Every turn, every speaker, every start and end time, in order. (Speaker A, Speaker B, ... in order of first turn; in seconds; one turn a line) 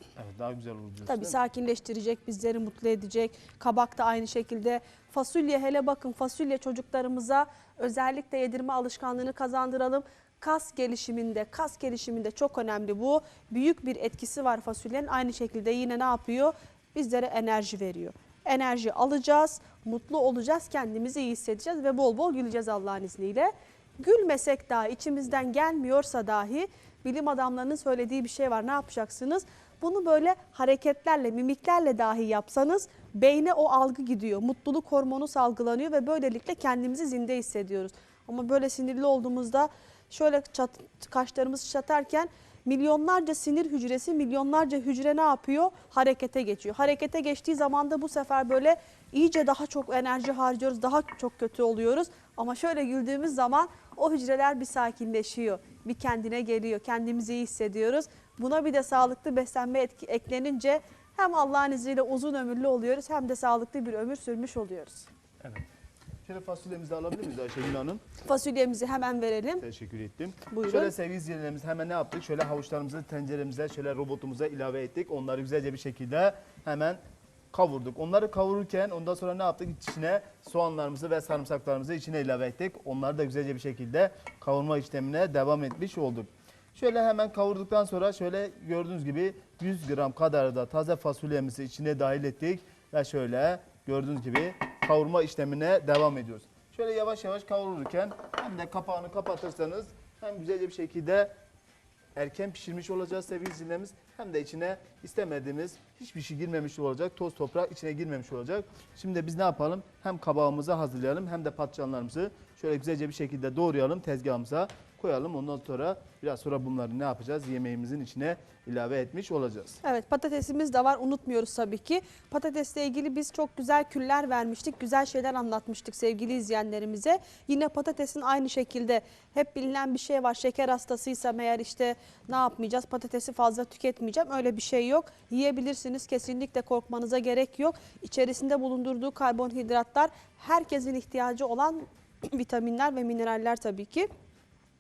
Speaker A: 0.1-1.4
Speaker B: 1.1-65.1
Speaker A: 66.2-68.0
Speaker B: 68.2-69.6
Speaker A: 69.6-101.3
Speaker B: 70.5-70.9
Speaker A: 102.1-119.8
Speaker B: 119.8-144.1